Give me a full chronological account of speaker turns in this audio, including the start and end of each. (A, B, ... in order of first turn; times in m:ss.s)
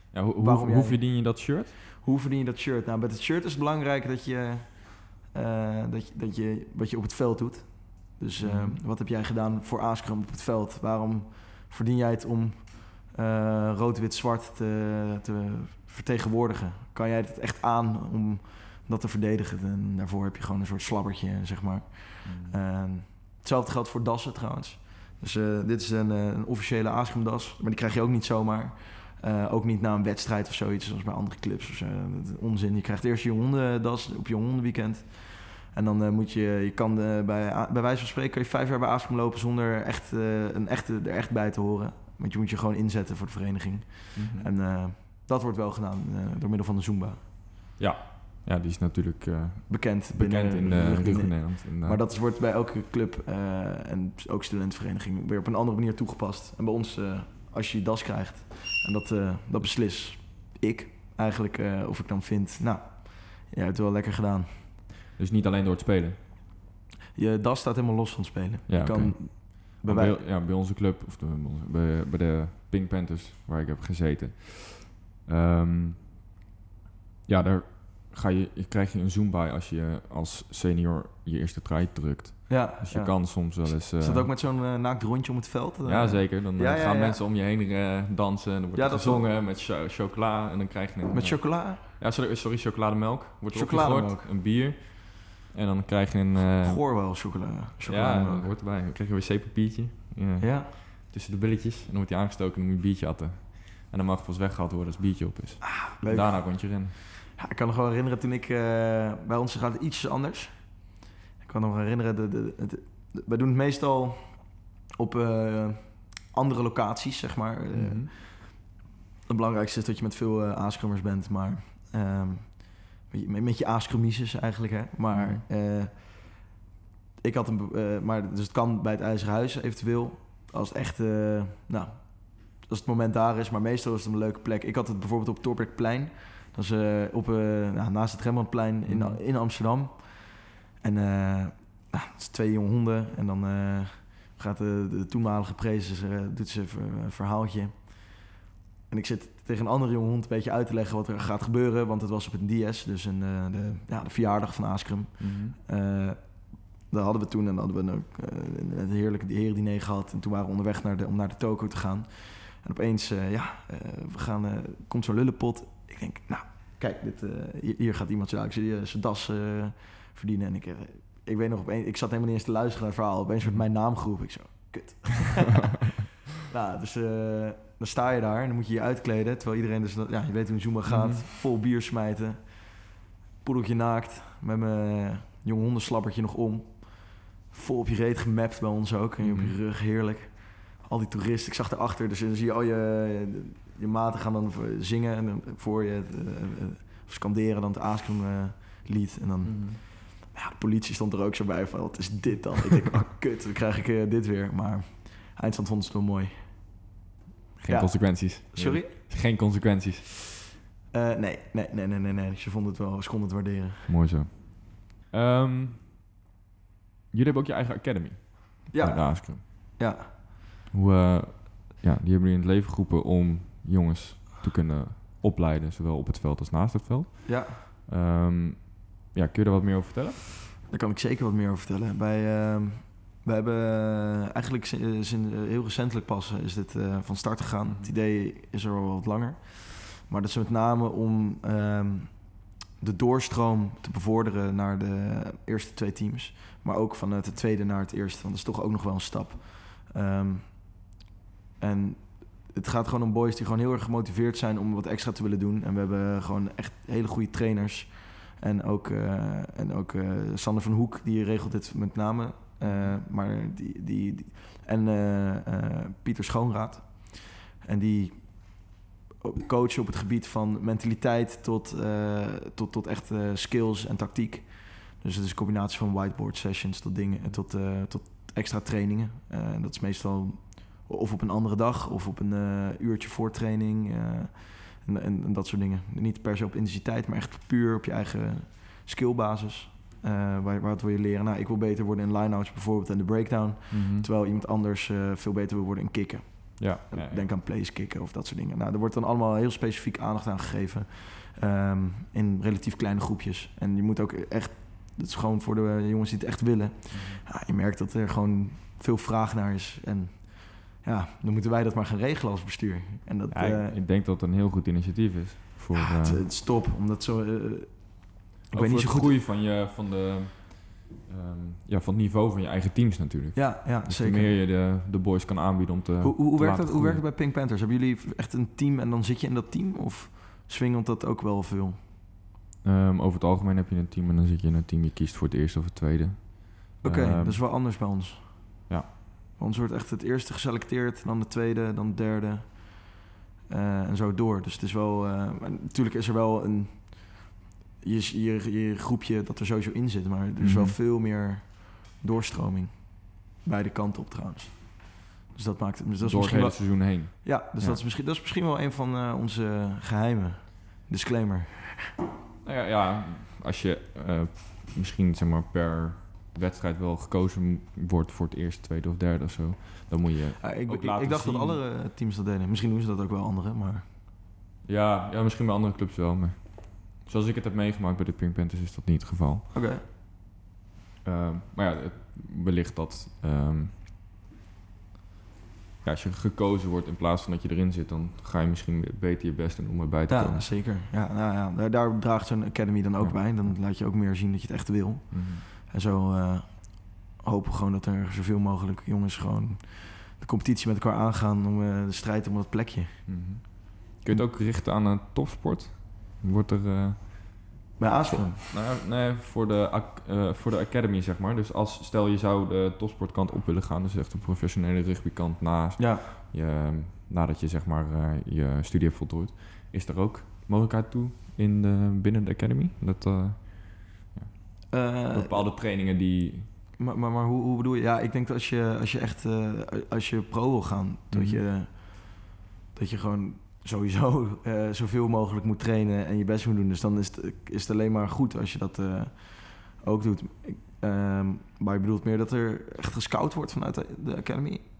0:00.1-0:01.7 A
0:00.4-0:01.4 B
0:01.9-0:47.3 B
0:08.4-0:08.8 A
0:22.2-0:22.6 A
0:44.1-0:44.5 A
0:47.8-0:52.0 A
0:49.7-1:04.7 B
1:05.2-1:06.2 A
1:07.1-1:10.2 B
1:08.7-1:16.0 A
1:17.2-1:24.3 A
1:22.5-1:27.2 B
1:25.8-1:36.8 A
1:28.7-1:29.3 B
1:31.1-1:31.8 B
1:33.5-1:34.3 B
1:36.5-1:38.5 B
1:37.8-1:46.9 A
1:40.4-1:40.7 B
1:45.6-2:06.4 B
1:57.7-1:58.1 A
2:05.1-2:05.4 A
2:07.2-2:28.3 B
2:18.8-2:19.2 A
2:28.9-3:26.6 B
2:35.2-2:35.6 A
3:00.9-3:01.2 A
3:09.2-3:09.5 A
3:19.4-3:19.8 A
3:27.6-3:30.0 A
3:27.7-3:28.9 B
3:30.9-3:33.9 B
3:33.9-3:35.9 A
3:37.1-3:39.8 A
3:38.7-3:40.1 B
3:40.7-3:50.3 A
3:47.2-3:47.6 B
3:50.7-4:10.9 B
3:57.6-3:57.9 A
4:11.6-5:13.7 B
4:22.6-4:23.0 A
4:37.1-4:37.4 A
4:53.7-4:54.1 A
4:56.6-4:57.2 A
5:06.9-5:07.2 A
5:13.3-5:16.2 A
5:15.7-5:19.2 B
5:18.5-5:27.0 A
5:23.3-5:24.3 B
5:26.0-5:31.8 B
5:32.6-5:37.4 A
5:36.8-5:38.7 B
5:39.4-6:01.9 B
5:50.4-5:50.7 A
5:56.0-5:57.8 A
6:02.4-6:11.6 A
6:10.4-6:13.8 B
6:14.6-6:19.5 A
6:19.5-6:19.8 B
6:21.0-6:23.8 A
6:25.8-6:30.4 A
6:30.1-6:43.2 B
6:33.0-6:33.6 A
6:35.1-6:35.4 A
6:43.1-7:06.5 A
6:47.8-6:48.4 B
6:55.8-6:56.0 B
7:04.7-7:05.5 B
7:06.8-7:24.6 B
7:11.1-7:11.4 A